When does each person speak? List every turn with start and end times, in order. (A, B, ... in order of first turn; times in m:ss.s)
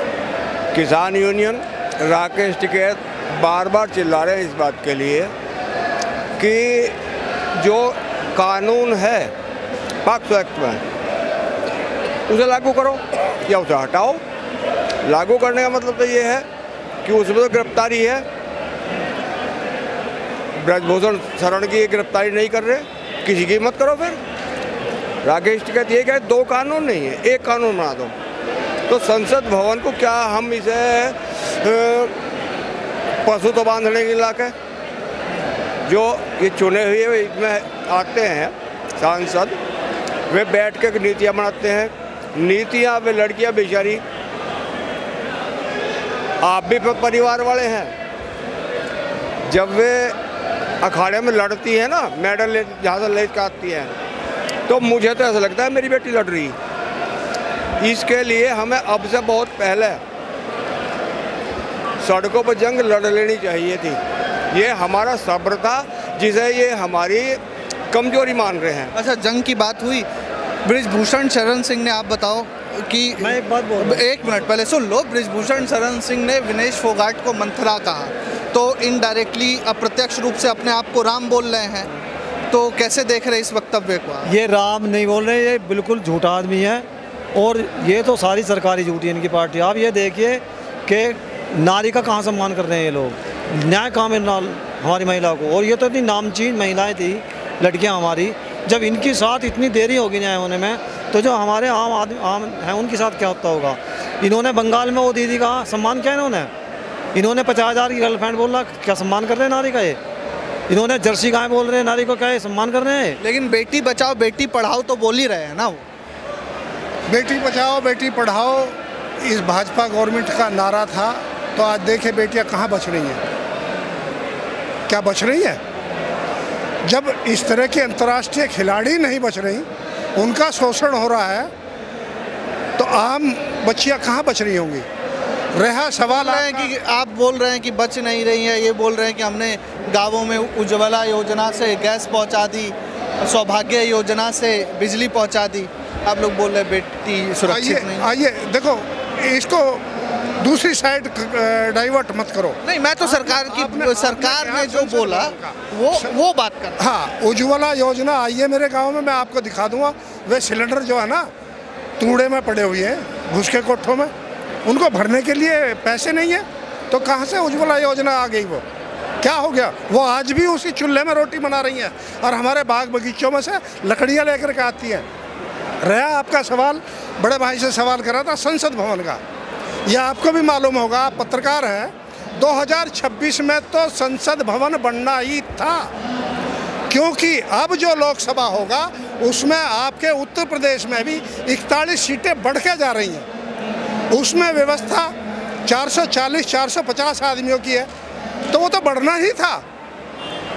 0:00.7-0:05.3 A
0:06.4-0:07.0 A
0:07.6-0:09.3 A
0:10.0-0:10.8 A
0:12.3-0:14.2 A
0:15.0-0:16.5 A
0:17.0-0:18.2 A
0:20.6-0:24.2 A
0:25.2-0:28.1 A
0:28.9-0:32.2 A
0:33.3-0:34.6 A
0:35.9-0:39.6 A
0:40.3-0:44.0 A
0:46.4-0:47.9 A
0:49.5-0:50.2 A
0:50.8-0:53.9 A
0:54.7-0:56.6 A
0:57.8-1:00.0 A
1:02.0-1:04.0 A
1:04.5-1:07.4 A
1:07.9-1:08.9 A
1:08.9-1:10.1 B
1:10.6-1:21.9 B
1:13.2-1:14.5 C
1:22.5-1:24.3 B
1:24.2-1:46.5 C
1:47.1-1:50.0 C
1:50.7-1:53.2 C
1:53.2-1:55.8 B
1:57.1-2:03.2 D
2:04.9-2:05.6 D
2:06.8-2:11.5 D
2:12.8-2:14.9 D
2:15.6-2:16.7 D
2:16.1-2:28.1 B
2:27.5-2:29.8 D
2:30.4-2:36.1 D
2:32.6-2:36.8 B
2:36.8-2:41.3 D
2:42.0-2:44.1 D
2:44.6-2:48.6 D
2:49.2-2:55.1 D
2:55.8-2:59.2 D
2:59.9-3:05.9 D
3:06.9-3:13.3 D
3:14.1-3:15.1 D
3:15.6-3:17.9 D
3:18.5-3:19.6 D